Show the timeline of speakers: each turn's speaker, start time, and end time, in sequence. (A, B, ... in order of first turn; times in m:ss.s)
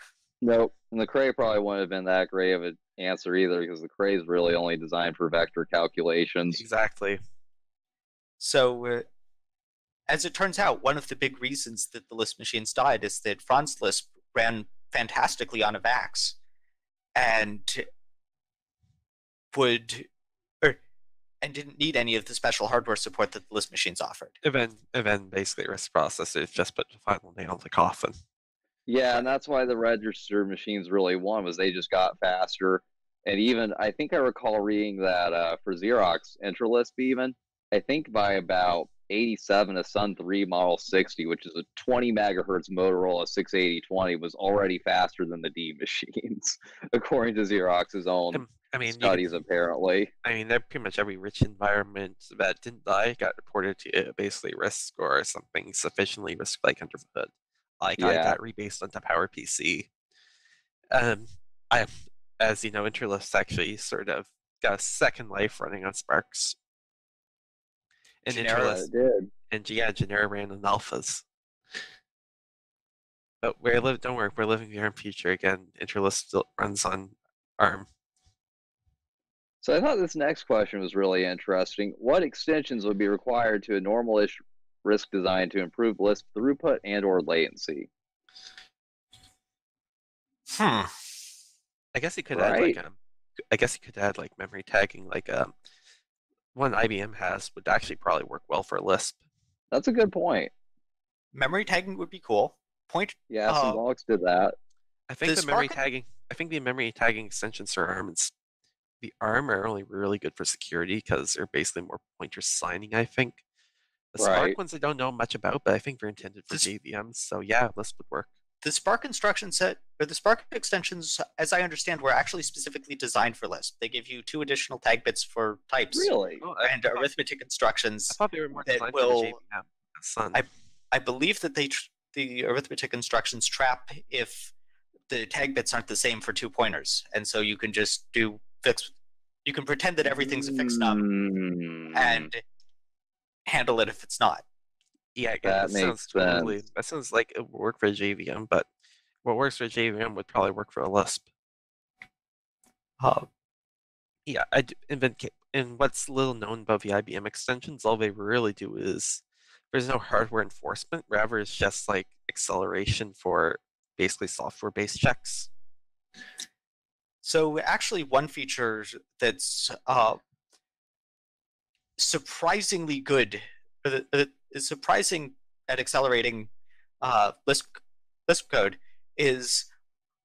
0:00.4-0:06.6 A
0:06.5-0:07.2 B
0:08.4-0:09.0 C
0:10.1-0:16.4 C
0:17.2-0:17.8 C
0:19.5-0:20.1 C
0:21.4-0:24.4 C
0:24.4-0:28.2 B
0:28.9-0:50.1 A
0:48.3-0:49.4 B
0:50.2-0:59.9 B
0:58.0-0:58.4 A
1:00.9-1:06.6 B
1:08.2-1:08.9 B
1:08.3-1:09.3 A
1:09.5-1:11.2 B
1:13.4-1:17.9 B
1:19.6-1:27.9 A
1:30.5-1:30.9 C
1:32.0-1:33.0 B
1:32.3-1:32.8 A
1:33.5-1:35.5 B
1:36.5-1:39.2 B
1:39.7-1:40.5 A
1:41.3-1:43.8 C
1:43.3-1:44.6 A
1:45.1-1:48.3 B
1:45.3-1:45.8 C
1:49.0-1:53.4 B
1:54.1-1:58.3 B
1:54.2-1:54.6 A
1:58.6-2:09.4 C
2:05.9-2:06.4 A
2:06.4-2:07.1 B
2:08.1-2:10.4 B
2:10.3-2:14.5 C
2:15.1-2:18.9 C
2:19.4-2:21.0 C
2:20.2-2:22.3 A
2:21.9-2:22.4 C
2:23.5-2:24.4 C
2:25.2-2:28.7 B
2:25.4-2:26.6 A
2:29.2-2:31.2 B
2:33.0-2:33.3 C
2:34.3-2:45.5 B
2:47.2-2:50.2 C
2:52.0-2:59.7 C